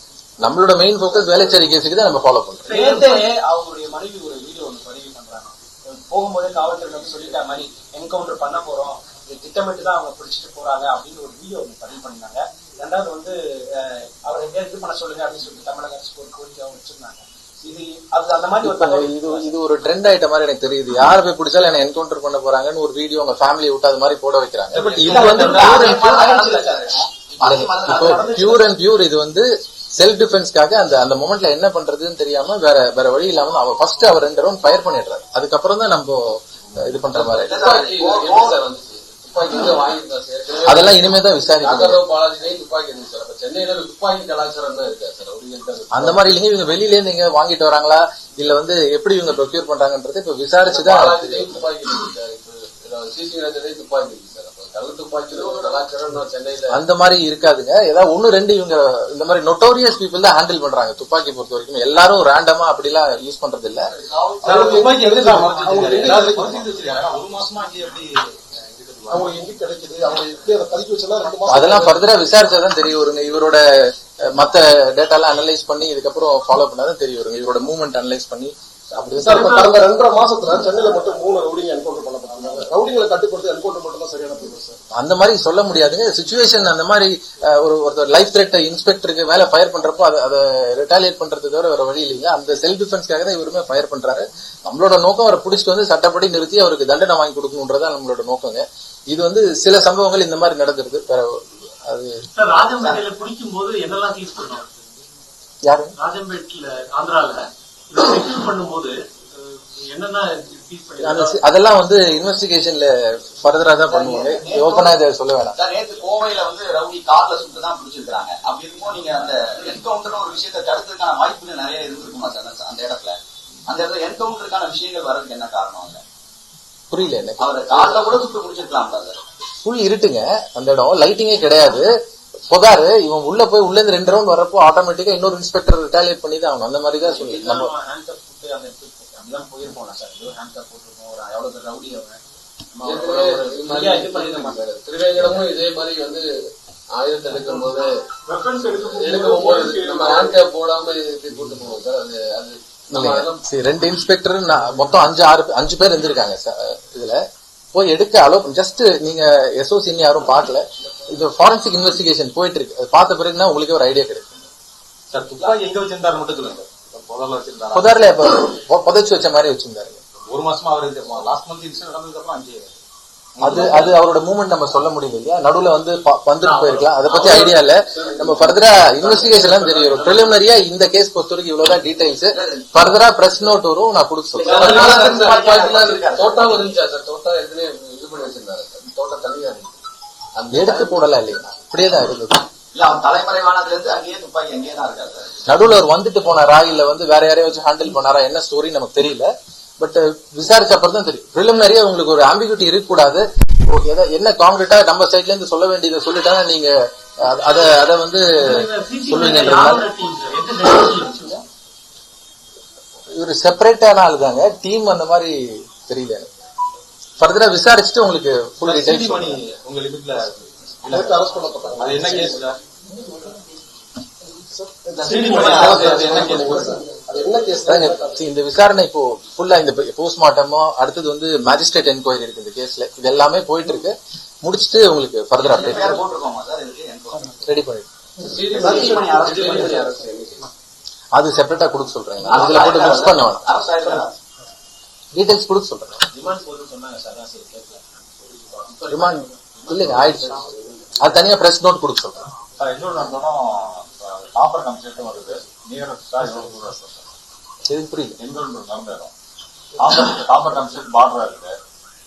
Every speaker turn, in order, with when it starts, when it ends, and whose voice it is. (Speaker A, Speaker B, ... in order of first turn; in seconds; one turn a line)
Speaker A: 0.4-2.7
Speaker B: 2.7-19.6
Speaker C: 2.7-3.2
Speaker A: 18.6-26.2
Speaker B: 24.7-26.9
Speaker D: 24.9-28.4
Speaker A: 27.4-37.6
Speaker B: 28.1-28.8
Speaker E: 37.1-46.4
Speaker D: 37.3-38.6
Speaker A: 40.6-42.0
Speaker A: 45.9-51.6
Speaker E: 50.6-56.8
Speaker A: 56.7-63.9
Speaker F: 64.4-66.6
Speaker G: 64.4-69.3
Speaker F: 69.1-72.0
Speaker A: 71.5-79.7
Speaker F: 79.2-84.8
Speaker A: 84.9-102.2
Speaker C: 102.3-104.8
Speaker A: 105.7-105.9
Speaker C: 106.0-111.4
Speaker A: 111.0-115.5
Speaker D: 113.9-114.9
Speaker D: 115.5-126.0
Speaker A: 126.9-128.2
Speaker D: 127.4-129.2
Speaker A: 129.6-131.9
Speaker A: 132.5-137.7
Speaker B: 137.0-142.2
Speaker B: 142.7-144.7
Speaker E: 142.8-146.2
Speaker A: 145.2-145.4
Speaker E: 146.9-147.9
Speaker F: 148.3-150.4
Speaker E: 148.7-153.4
Speaker A: 152.9-157.2
Speaker A: 157.7-164.4
Speaker G: 165.1-168.0
Speaker A: 167.7-170.0
Speaker G: 170.3-172.7
Speaker G: 173.4-173.9
Speaker A: 173.4-184.8
Speaker C: 176.4-177.3
Speaker D: 177.1-177.4
Speaker E: 177.9-180.2
Speaker D: 182.3-182.7
Speaker D: 184.3-186.6
Speaker E: 184.4-189.8
Speaker E: 190.3-191.1
Speaker A: 190.5-192.4
Speaker D: 192.7-195.3
Speaker A: 195.5-209.8
Speaker C: 208.3-211.4
Speaker A: 213.2-216.3
Speaker A: 217.2-219.4
Speaker G: 218.6-222.6
Speaker F: 220.9-222.4
Speaker F: 224.4-228.2
Speaker G: 225.0-226.6
Speaker D: 225.3-225.8
Speaker A: 227.6-236.0
Speaker D: 235.4-237.4
Speaker A: 237.4-237.9
Speaker E: 238.2-240.4
Speaker D: 238.3-239.9
Speaker F: 238.6-239.8
Speaker A: 241.1-243.4
Speaker D: 242.3-244.1
Speaker A: 245.1-246.0
Speaker B: 246.1-250.1
Speaker A: 248.9-250.4
Speaker A: 251.0-252.2
Speaker H: 252.6-257.1
Speaker A: 257.7-258.2
Speaker H: 258.2-259.1
Speaker H: 259.8-261.6